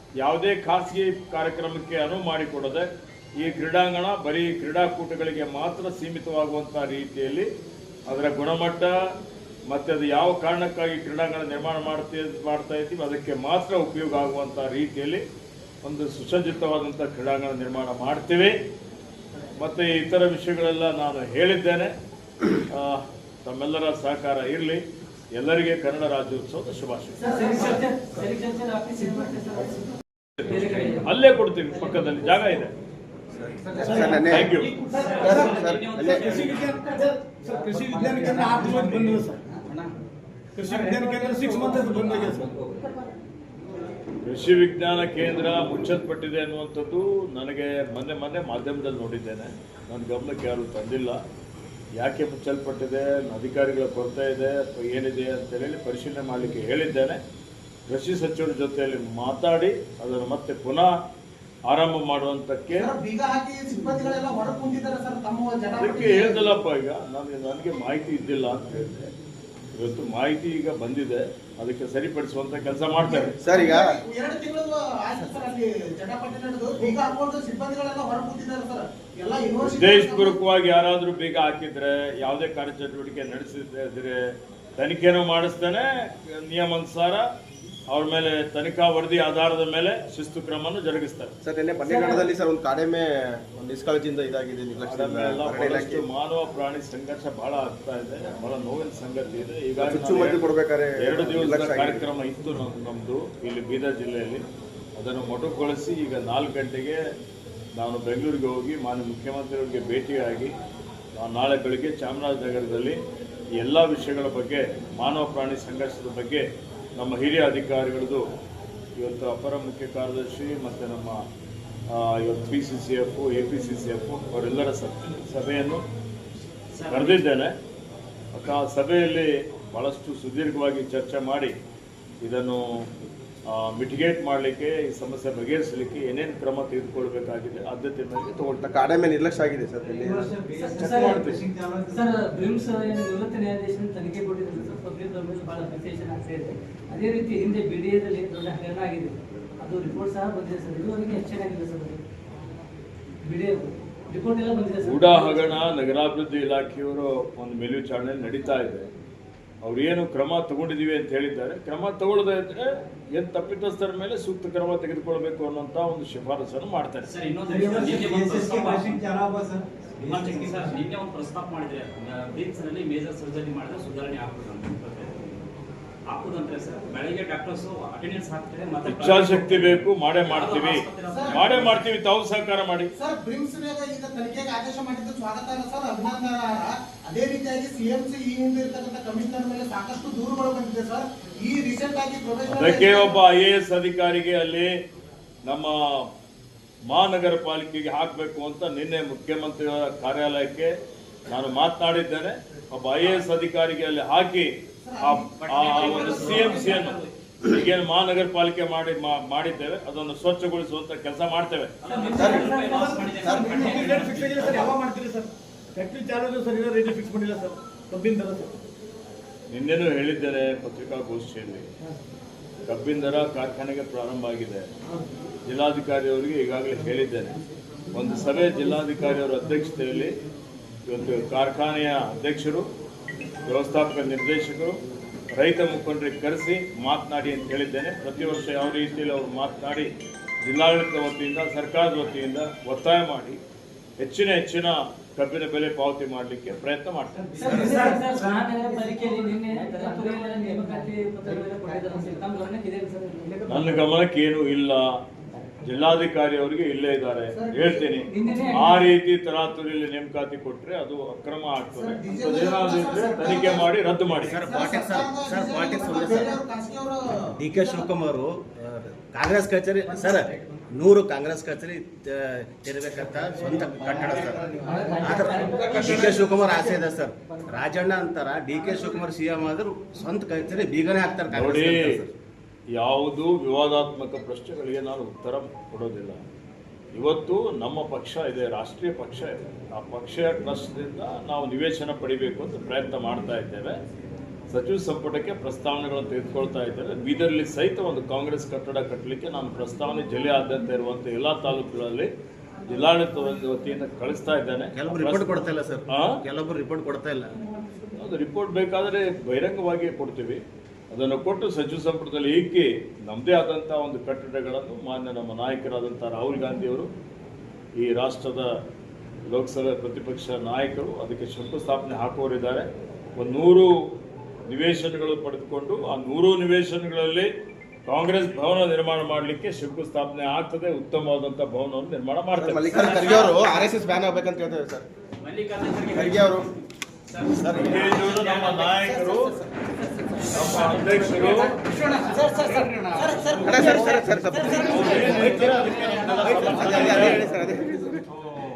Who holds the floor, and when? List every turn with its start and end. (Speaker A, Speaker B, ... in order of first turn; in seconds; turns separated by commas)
Speaker A: 0.2-7.5, Speaker A: 8.1-8.9, Speaker A: 9.7-15.2, Speaker A: 15.8-18.6, Speaker A: 19.6-21.9, Speaker A: 22.5-24.8, Speaker A: 25.4-27.3, Speaker B: 27.2-29.8, Speaker B: 30.4-31.1, Speaker A: 30.5-32.7, Speaker C: 33.3-34.5, Speaker D: 33.8-37.0, Speaker E: 33.9-34.2, Speaker A: 34.3-34.7, Speaker E: 34.9-39.4, Speaker C: 35.1-36.2, Speaker D: 37.8-39.9, Speaker E: 40.5-42.5, Speaker D: 40.7-42.9, Speaker A: 44.2-51.2, Speaker A: 52.0-57.2, Speaker A: 57.9-60.9, Speaker A: 61.7-62.9, Speaker F: 62.8-66.5, Speaker A: 65.8-69.1, Speaker A: 69.8-73.3, Speaker F: 73.0-80.4, Speaker C: 73.4-74.0, Speaker A: 79.7-84.2, Speaker A: 84.8-87.2, Speaker A: 87.9-91.3, Speaker C: 91.4-96.0, Speaker A: 94.8-100.4, Speaker C: 99.8-102.0, Speaker A: 101.0-104.4, Speaker A: 105.0-107.0, Speaker A: 107.8-110.5, Speaker A: 111.2-113.0, Speaker A: 113.6-116.5, Speaker A: 117.0-118.2, Speaker A: 119.0-121.2, Speaker A: 121.9-125.8, Speaker D: 126.7-127.2, Speaker A: 126.9-127.5, Speaker A: 128.3-131.5, Speaker A: 132.2-132.7, Speaker A: 133.5-138.6, Speaker C: 138.6-140.3, Speaker E: 140.0-142.2, Speaker B: 140.5-141.3, Speaker C: 141.0-141.2, Speaker B: 141.9-152.0, Speaker B: 153.2-155.7, Speaker A: 154.8-158.9, Speaker A: 159.6-167.1, Speaker D: 167.0-169.0, Speaker E: 167.5-170.7, Speaker D: 170.0-175.5, Speaker D: 176.1-181.9, Speaker A: 178.8-182.9, Speaker F: 181.1-181.4, Speaker F: 182.9-193.2, Speaker A: 192.5-194.7, Speaker A: 195.5-195.8, Speaker A: 196.9-200.7, Speaker A: 201.3-204.5, Speaker F: 204.8-206.8, Speaker A: 205.0-211.7, Speaker D: 205.4-207.1, Speaker D: 211.8-214.8, Speaker B: 211.9-213.9, Speaker C: 212.2-212.5, Speaker E: 212.7-218.5, Speaker A: 219.5-221.7, Speaker A: 222.7-224.7, Speaker A: 225.5-227.4, Speaker A: 227.9-230.1, Speaker A: 230.9-232.7, Speaker A: 233.5-234.8, Speaker A: 235.4-239.9, Speaker A: 240.4-243.4, Speaker A: 244.0-247.2, Speaker B: 247.4-253.8, Speaker G: 247.4-247.8, Speaker A: 253.5-254.9, Speaker A: 255.6-264.4, Speaker F: 257.3-258.7, Speaker B: 258.1-258.9, Speaker F: 261.8-268.0, Speaker G: 264.3-266.3, Speaker G: 267.4-282.1, Speaker F: 269.9-270.3, Speaker F: 273.4-276.8, Speaker B: 274.6-275.9, Speaker A: 281.3-281.9, Speaker A: 282.8-286.2, Speaker A: 286.9-293.8, Speaker A: 294.5-302.1, Speaker A: 302.7-306.2, Speaker G: 304.8-307.3, Speaker A: 307.9-316.9, Speaker A: 317.8-318.5, Speaker A: 319.3-323.7, Speaker A: 324.5-327.3, Speaker A: 327.9-333.1, Speaker C: 332.3-334.9, Speaker D: 332.7-333.4, Speaker D: 335.2-336.4, Speaker C: 335.9-336.5, Speaker D: 337.1-339.1, Speaker C: 337.4-337.9, Speaker A: 337.6-339.4, Speaker A: 340.3-341.6, Speaker D: 340.4-343.9, Speaker C: 343.4-345.5, Speaker A: 344.5-347.2, Speaker F: 344.7-345.4, Speaker D: 344.7-346.8, Speaker E: 345.4-345.9, Speaker C: 346.2-348.0